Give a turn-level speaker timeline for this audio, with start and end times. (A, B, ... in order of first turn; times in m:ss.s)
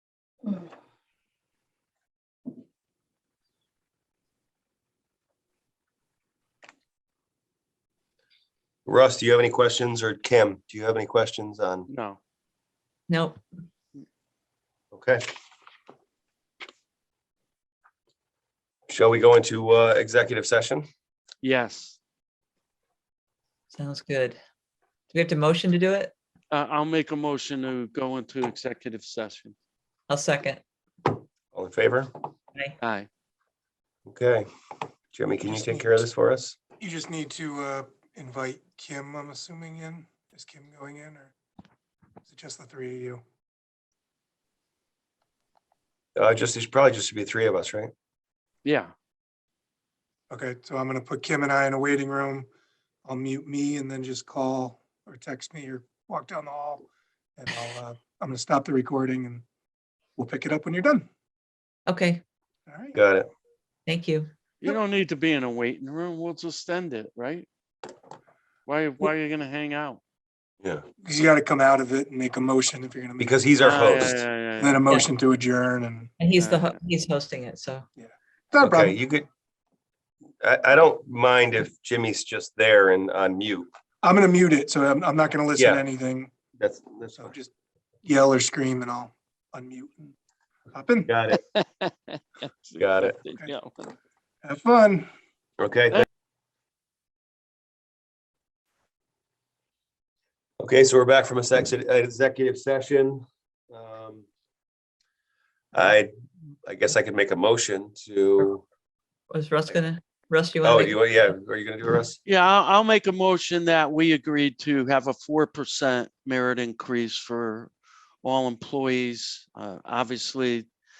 0:08.9-0:11.9 A
0:11.9-0:12.2 B
0:13.1-0:13.4 C
0:14.9-0:15.2 A
0:18.9-0:20.9 A
0:21.4-0:22.0 B
0:23.7-0:24.4 C
0:25.1-0:26.1 C
0:26.5-0:29.5 B
0:30.1-0:30.6 C
0:31.5-0:32.1 A
0:32.8-0:33.1 B
0:34.1-0:34.4 A
0:35.1-0:36.6 A
0:35.4-0:36.1 D
0:36.8-0:41.3 D
0:42.2-0:43.2 D
0:46.2-0:47.9 A
0:48.6-0:48.9 B
0:50.3-0:52.5 D
0:53.1-0:59.4 D
1:00.2-1:01.1 D
1:01.9-1:02.2 C
1:02.7-1:03.0 D
1:02.9-1:03.3 A
1:03.9-1:04.3 C
1:04.6-1:07.5 B
1:08.7-1:10.0 B
1:11.0-1:13.4 D
1:13.2-1:14.2 A
1:13.6-1:14.8 B
1:14.6-1:16.1 D
1:16.2-1:17.9 C
1:16.4-1:16.8 B
1:18.0-1:19.0 D
1:18.6-1:19.3 A
1:20.4-1:23.7 A
1:24.0-1:26.3 D
1:25.6-1:25.8 A
1:26.6-1:27.3 A
1:27.2-1:27.5 D
1:28.0-1:30.2 D
1:30.7-1:31.1 D
1:31.1-1:31.4 A
1:31.3-1:33.9 B
1:32.8-1:33.2 A
1:34.4-1:35.1 D
1:35.6-1:36.1 A
1:40.6-1:44.3 A
1:45.7-1:46.1 A
1:46.6-1:48.6 A
1:49.3-1:51.0 C
1:50.6-1:52.2 A
1:52.3-1:57.7 B
1:58.2-2:00.7 B